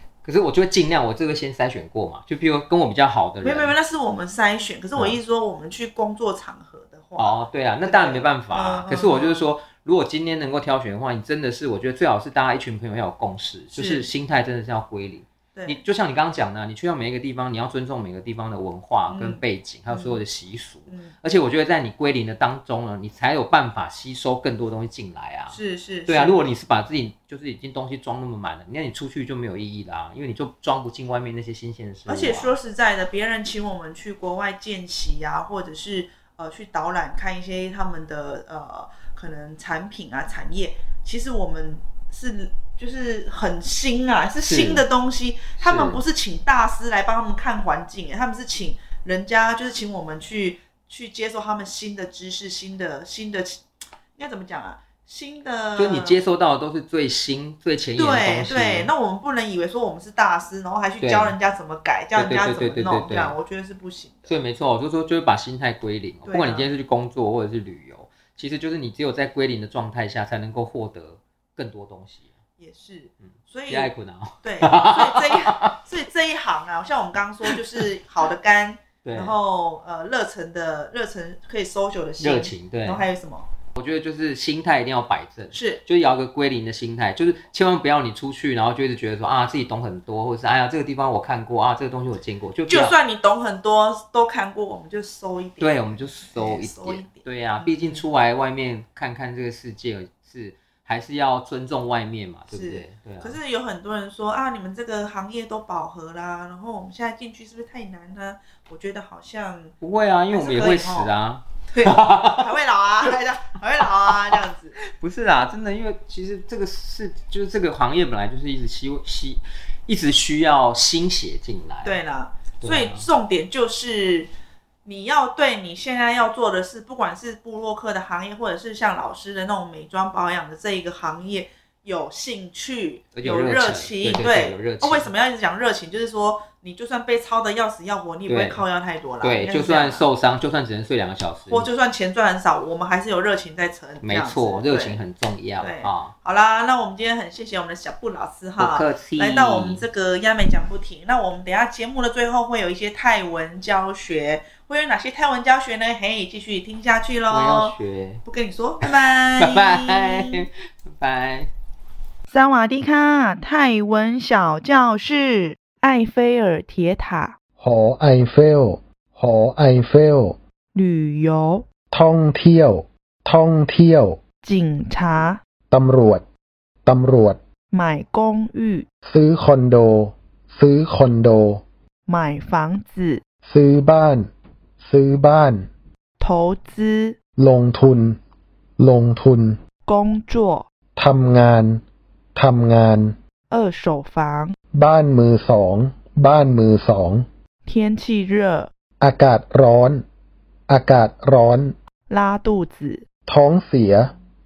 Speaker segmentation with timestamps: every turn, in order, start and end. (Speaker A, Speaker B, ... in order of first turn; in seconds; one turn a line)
Speaker A: 0.2-3.7
Speaker B: 3.4-9.5
Speaker A: 7.2-32.6
Speaker B: 13.7-14.1
Speaker B: 15.6-15.8
Speaker B: 19.1-20.2
Speaker B: 20.9-21.1
Speaker B: 25.5-26.4
Speaker B: 32.1-53.6
Speaker A: 44.4-44.9
Speaker A: 45.6-46.0
Speaker B: 54.2-56.2
Speaker A: 55.8-58.9
Speaker B: 58.0-64.4
Speaker A: 61.0-61.4
Speaker A: 62.2-63.4
Speaker A: 64.3-72.3
Speaker B: 66.3-66.7
Speaker B: 72.6-73.9
Speaker A: 73.2-75.8
Speaker B: 74.4-83.5
Speaker A: 77.5-77.8
Speaker A: 79.0-79.3
Speaker A: 82.2-83.0
Speaker A: 83.7-93.0
Speaker B: 85.5-85.8
Speaker B: 92.7-98.0
Speaker A: 95.6-103.4
Speaker B: 102.5-109.8
Speaker A: 109.8-112.5
Speaker B: 110.3-111.1
Speaker B: 111.7-114.8
Speaker A: 113.8-122.0
Speaker B: 121.8-124.3
Speaker A: 122.6-123.1
Speaker B: 124.8-140.1
Speaker A: 133.1-135.1
Speaker A: 138.3-138.6
Speaker A: 139.2-141.7
Speaker B: 141.5-145.0
Speaker A: 144.0-146.1
Speaker B: 145.6-160.4
Speaker A: 148.6-149.8
Speaker A: 157.3-158.2
Speaker A: 158.8-161.5
Speaker B: 162.3-167.4
Speaker C: 167.6-170.4
Speaker B: 170.7-171.7
Speaker C: 171.9-174.2
Speaker B: 174.4-175.4
Speaker C: 175.7-176.3
Speaker C: 176.9-177.4
Speaker B: 177.7-178.9
Speaker C: 179.1-181.6
Speaker B: 182.1-183.2
Speaker C: 183.4-184.3
Speaker C: 184.8-185.7
Speaker B: 186.2-187.2
Speaker C: 187.4-188.2
Speaker C: 188.8-189.6
Speaker B: 189.9-190.7
Speaker C: 191.0-191.8
Speaker C: 192.3-193.2
Speaker B: 193.5-194.6
Speaker C: 194.7-197.3
Speaker B: 197.7-198.7
Speaker C: 199.0-200.1
Speaker C: 200.7-201.8
Speaker B: 202.1-203.0
Speaker C: 203.3-204.1